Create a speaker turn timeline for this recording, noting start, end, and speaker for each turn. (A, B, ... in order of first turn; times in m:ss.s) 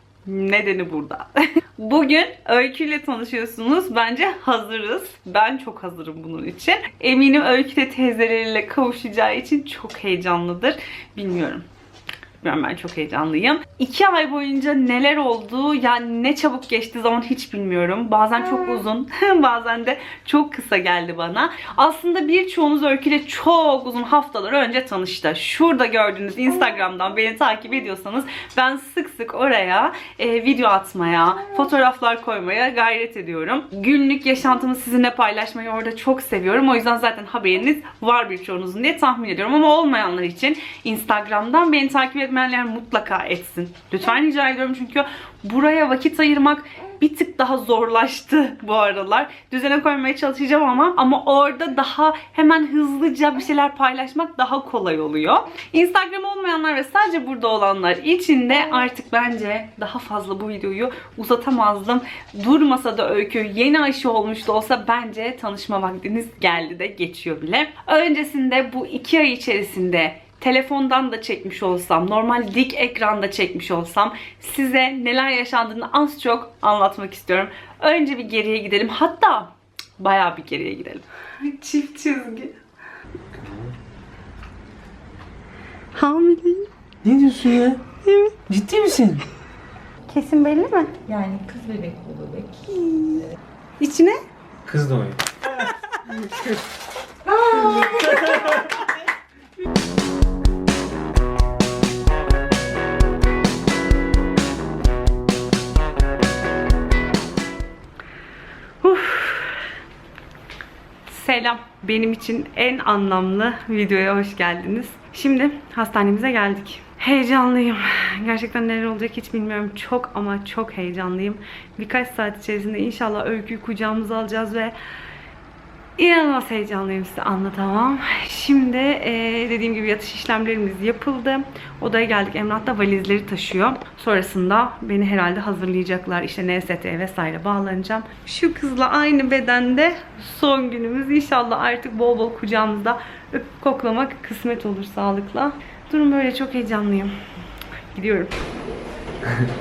0:00.2-0:11.6 A
0:12.4-1:22.6 A
1:23.3-1:23.7 B
1:25.9-1:26.7 A
1:27.0-1:27.8 B
1:28.0-1:28.4 A
1:28.5-1:29.2 B
1:30.1-1:31.0 A
1:31.1-1:32.7 C
1:32.6-1:33.3 A
1:33.8-1:34.2 A
1:34.6-1:35.2 B
1:37.3-1:38.6 A
1:37.5-1:38.5 C
1:48.8-1:49.6 A
1:51.1-2:04.8 A
2:06.0-2:27.2 A
2:27.9-2:28.4 A